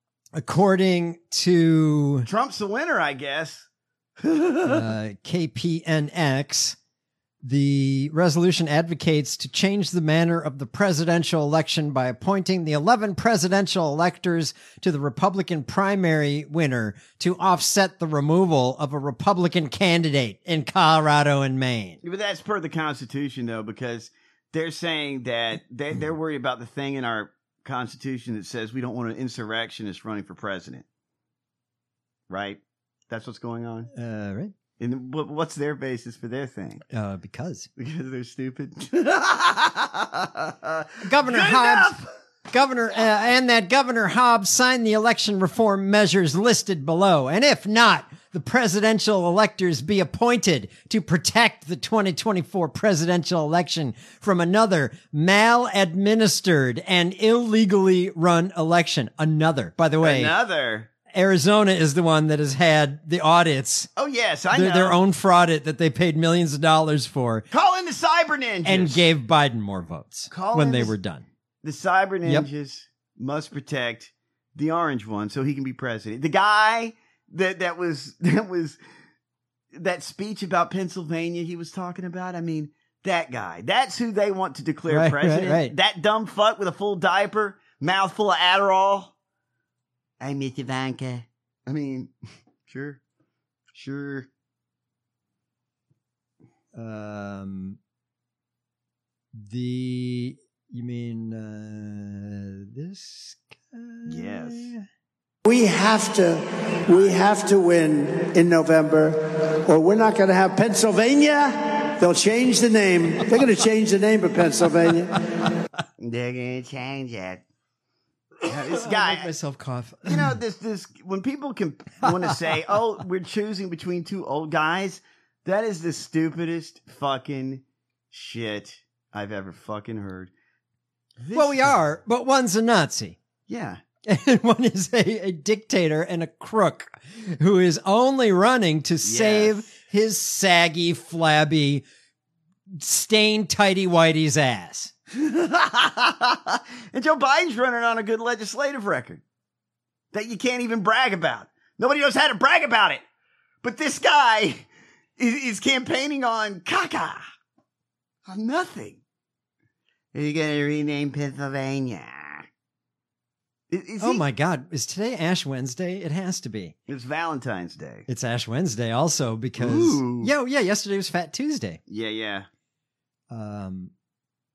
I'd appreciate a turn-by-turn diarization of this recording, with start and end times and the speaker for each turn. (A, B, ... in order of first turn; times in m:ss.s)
0:00.3-0:02.3 A
0:02.2-0:03.6 B
0:04.2-0:04.9 B
0:04.6-0:06.8 A
0:07.4-0:22.0 A
0:22.0-0:30.8 B
0:32.3-0:33.9 B
0:33.9-0:34.5 A
0:34.8-0:36.8 B
0:36.9-0:37.7 A
0:37.8-0:42.1 B
0:41.0-0:42.0 A
0:42.5-1:00.3 A
1:00.0-1:00.9 B
1:01.1-1:03.9 A
1:04.0-1:05.0 B
1:04.5-1:07.5 A
1:07.5-1:09.1 B
1:08.6-1:11.2 A
1:10.3-1:10.9 B
1:11.6-1:18.8 B
1:19.7-1:29.1 B
1:24.9-1:25.7 A
1:30.2-1:32.1 B
1:32.7-1:33.0 B
1:33.7-1:34.3 B
1:36.7-1:37.8 A
1:39.4-1:44.8 A
1:44.0-1:44.7 B
1:45.4-1:55.2 C
1:56.0-1:57.4 B
1:58.4-1:59.3 B
1:58.4-2:00.4 A
2:00.0-2:10.3 B
2:02.0-2:02.8 A
2:11.2-2:11.8 B
2:11.3-2:13.2 A
2:13.5-2:13.8 B
2:14.0-2:21.8 A
2:19.0-2:19.7 B
2:22.7-2:24.9 A
2:25.1-2:29.2 B
2:30.1-2:33.0 B
2:33.6-2:34.7 B
2:35.2-2:37.2 B
2:38.3-2:39.0 B
2:40.1-2:42.5 B
2:43.7-2:44.2 B
2:44.0-2:46.8 A
2:46.9-2:48.1 B
2:48.1-2:51.8 A
2:49.6-2:50.3 B
2:51.9-2:52.5 B
2:53.3-2:53.9 A